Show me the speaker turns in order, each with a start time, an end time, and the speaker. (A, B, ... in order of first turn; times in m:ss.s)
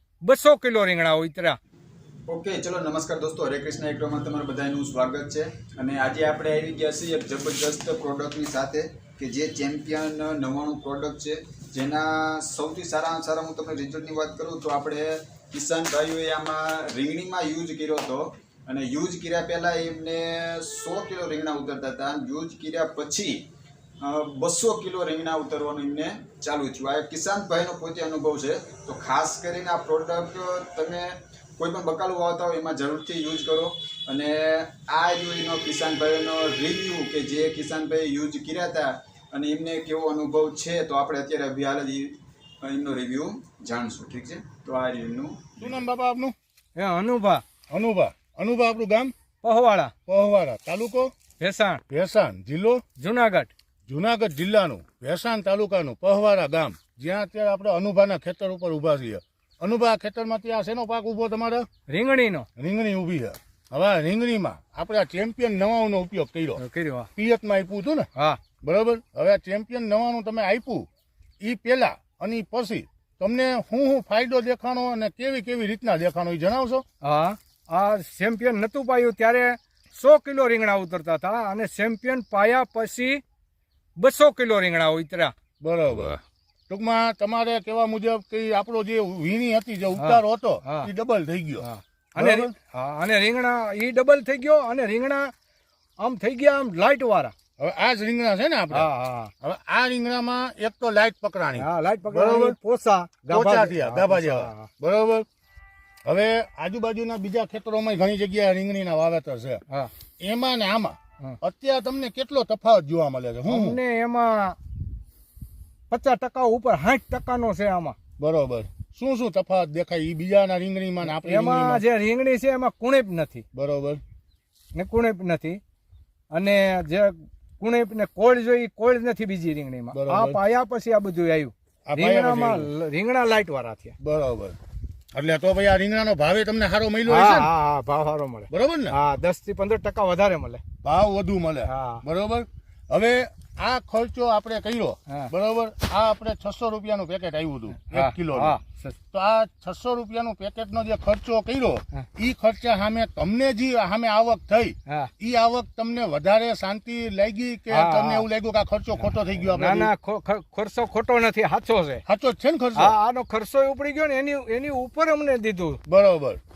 0:00.2-0:01.6 A
0:02.3-0:23.4 B
0:24.0-0:45.9 B
0:45.6-0:46.3 C
0:46.8-0:47.4 A
0:47.7-0:49.1 C
0:49.4-0:49.9 A
0:50.1-0:51.1 C
0:51.4-0:51.8 A
0:51.9-0:52.8 C
0:53.0-0:53.5 A
0:53.9-1:01.7 C
1:01.9-1:02.5 A
1:02.6-1:06.6 C
1:06.6-1:07.1 A
1:07.2-1:08.1 C
1:08.6-1:10.9 C
1:11.4-1:16.8 C
1:17.0-1:23.2 A
1:24.0-1:25.3 A
1:25.6-1:32.5 C
1:30.0-1:30.9 A
1:31.6-1:35.3 A
1:36.0-1:37.3 A
1:37.6-1:38.9 C
1:38.7-1:39.3 A
1:39.4-1:42.6 C
1:41.6-1:44.7 A
1:43.3-1:45.3 C
1:46.1-1:49.6 C
1:50.2-1:53.8 C
1:53.5-1:54.6 A
1:55.9-1:58.0 A
1:58.2-2:01.8 C
2:01.0-2:03.4 A
2:03.5-2:04.0 C
2:04.8-2:05.6 A
2:06.3-2:14.0 A
2:09.9-2:10.4 C
2:11.9-2:12.7 C
2:14.0-2:14.6 C
2:15.1-2:17.5 C
2:17.1-2:20.6 A
2:18.5-2:19.0 C
2:20.8-2:28.6 C
2:21.7-2:22.0 A
2:27.8-2:29.0 A
2:29.1-2:39.9 C
2:37.7-2:38.2 A
2:39.4-2:42.0 A
2:42.1-2:43.0 C
2:42.8-2:45.8 A
2:45.9-2:46.4 C